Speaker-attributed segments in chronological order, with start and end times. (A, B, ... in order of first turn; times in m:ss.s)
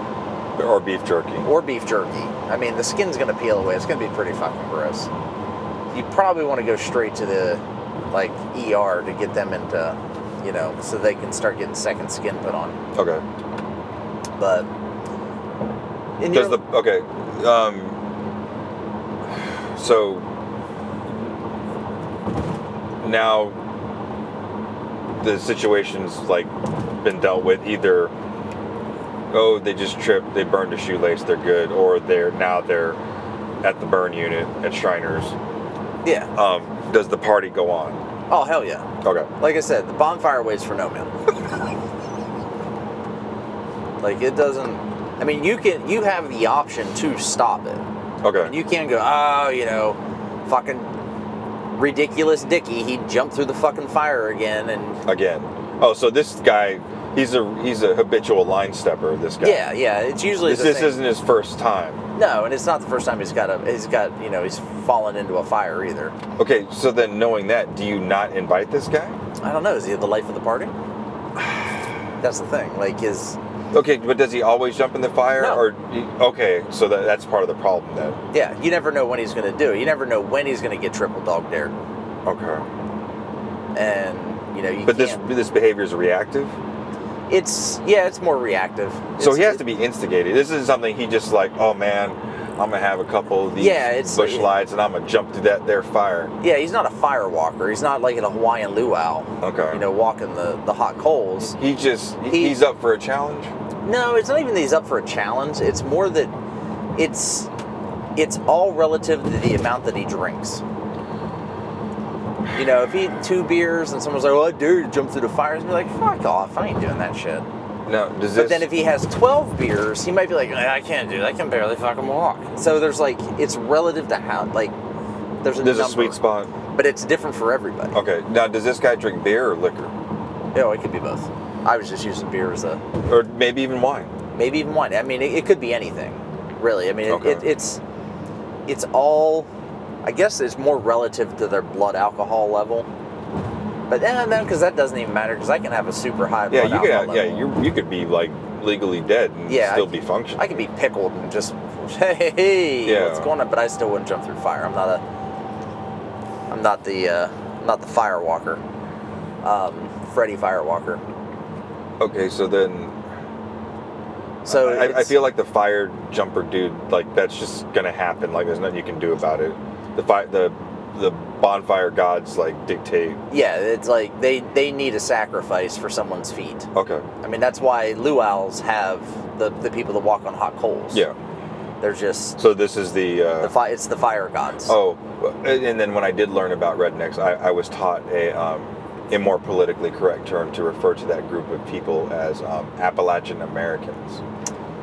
0:00.6-0:01.5 A
0:01.4-0:05.1 B
0:05.9-0:12.8 B
0:13.0-0:13.2 A
0:14.4-0:14.7 B
0:16.2-0:16.6 B
0:16.3-0:18.0 A
0:19.3-0:20.3 A
0:23.0-0:23.6 A
0:25.2-0:28.1 A
0:29.3-0:33.0 A
0:33.6-0:35.4 A
0:36.0-0:36.3 B
0:36.4-0:38.0 A
0:38.3-0:38.9 B
0:39.0-0:39.3 A
0:39.4-0:41.1 B
0:44.0-0:47.8 B
0:48.2-0:48.6 A
0:48.4-0:50.9 B
0:51.7-0:55.0 B
0:55.1-0:59.7 A
0:59.4-1:01.0 B
1:00.4-1:02.0 A
1:02.2-1:06.2 B
1:06.4-1:09.2 A
1:09.4-1:10.8 B
1:12.2-1:13.4 B
1:13.7-1:18.2 A
1:15.4-1:15.6 B
1:18.3-1:21.8 B
1:22.2-1:22.6 A
1:23.7-1:25.2 B
1:24.9-1:26.6 A
1:27.3-1:29.6 B
1:29.2-1:36.3 A
1:33.6-1:34.5 B
1:36.4-1:41.6 B
1:39.4-1:39.8 A
1:41.6-1:43.5 A
1:42.3-1:42.6 B
1:43.8-1:46.3 B
1:47.0-1:47.5 B
1:48.2-1:50.6 B
1:52.5-1:57.5 B
1:57.9-1:58.7 A
1:58.4-2:04.7 B
2:05.4-2:06.2 B
2:05.6-2:06.5 A
2:06.7-2:08.0 B
2:07.9-2:09.9 A
2:10.5-2:12.8 B
2:13.1-2:14.1 A
2:14.3-2:17.8 B
2:17.1-2:17.5 A
2:18.7-2:19.5 B
2:20.0-2:22.9 B
2:23.9-2:27.5 B
2:26.5-2:30.6 A
2:29.5-2:35.0 B
2:32.8-2:33.3 A
2:36.5-2:38.6 B
2:39.4-2:41.0 B
2:42.0-2:43.0 A
2:44.4-2:45.2 B
2:44.5-2:53.2 A
2:53.3-2:56.7 B
2:56.8-2:57.1 A
2:57.2-3:01.0 B
3:01.8-3:02.4 B
3:02.4-3:03.5 A
3:03.4-3:04.8 B
3:04.7-3:14.2 A